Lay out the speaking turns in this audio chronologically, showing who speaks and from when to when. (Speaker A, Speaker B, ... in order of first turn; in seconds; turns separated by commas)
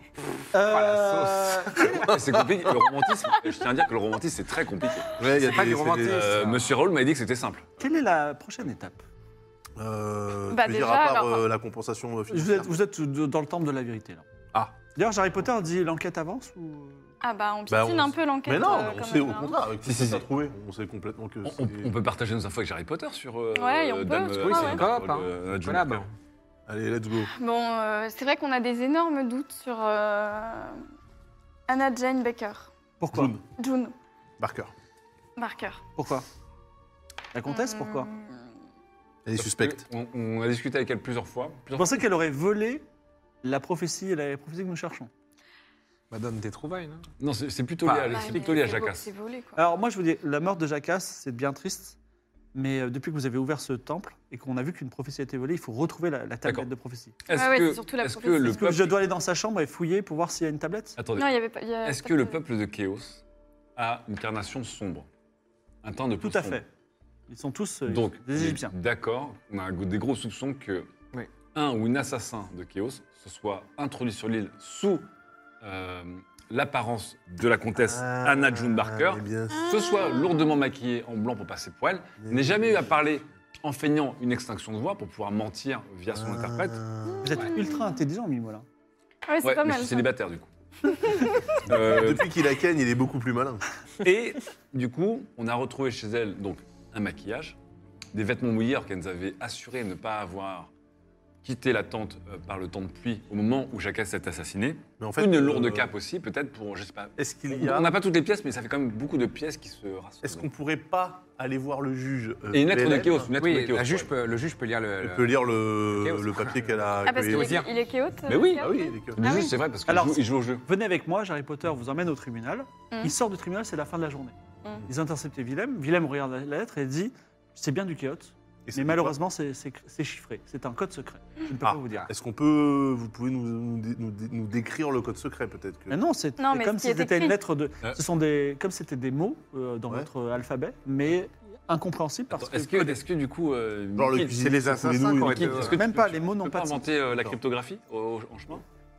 Speaker A: 0.5-1.9, Speaker B: 0.6-2.0, Speaker C: 2.0-5.1, Speaker D: 5.2-6.3, Speaker B: 5.3-6.7, Speaker C: 6.0-7.7, Speaker A: 7.8-9.0, Speaker D: 9.8-12.7, Speaker E: 10.5-11.5, Speaker A: 12.3-14.2, Speaker A: 14.9-17.1, Speaker E: 17.2-19.6, Speaker D: 17.7-21.9, Speaker C: 19.9-20.2, Speaker C: 21.4-26.1, Speaker E: 23.6-24.9, Speaker B: 24.4-26.1, Speaker D: 26.7-27.3, Speaker E: 27.3-30.8, Speaker E: 31.7-32.7, Speaker A: 33.0-33.3, Speaker D: 33.1-33.4, Speaker E: 33.6-34.0, Speaker D: 34.4-34.7, Speaker E: 35.4-35.8, Speaker A: 36.0-36.2, Speaker A: 37.3-38.1, Speaker E: 37.5-38.4, Speaker D: 39.2-39.8, Speaker C: 39.4-42.0, Speaker A: 41.7-42.9, Speaker A: 43.4-45.1, Speaker B: 46.1-47.1, Speaker C: 47.2-49.0, Speaker B: 47.8-48.3, Speaker E: 48.0-49.6, Speaker A: 49.5-52.0, Speaker A: 52.5-57.2, Speaker C: 57.3-59.0, Speaker E: 57.3-58.7, Speaker A: 58.4-61.0, Speaker C: 61.0-63.2, Speaker E: 61.2-62.4, Speaker C: 63.8-65.1, Speaker C: 65.8-66.6, Speaker A: 66.2-66.7, Speaker A: 67.3-68.7, Speaker C: 67.9-70.9, Speaker C: 71.5-75.0, Speaker C: 75.6-86.8, Speaker D: 77.7-79.7, Speaker E: 79.8-80.4, Speaker D: 82.2-82.9, Speaker D: 86.1-87.3, Speaker A: 87.2-88.6, Speaker E: 87.3-87.7, Speaker E: 89.3-90.1, Speaker C: 89.4-92.3, Speaker D: 91.7-93.6, Speaker C: 94.0-97.6, Speaker C: 98.1-100.7, Speaker C: 101.4-110.5, Speaker D: 105.0-105.9, Speaker D: 107.2-107.9, Speaker D: 110.2-113.3, Speaker C: 112.5-114.1, Speaker B: 113.4-117.7, Speaker D: 115.0-117.7, Speaker E: 117.0-119.5, Speaker C: 118.3-120.6, Speaker D: 118.5-119.2, Speaker A: 119.9-132.1, Speaker D: 128.7-129.1, Speaker D: 131.6-136.0, Speaker A: 135.9-143.0, Speaker E: 136.4-137.4, Speaker C: 142.3-144.5, Speaker D: 144.0-145.8, Speaker B: 144.4-145.8, Speaker C: 145.2-148.6, Speaker A: 145.7-146.8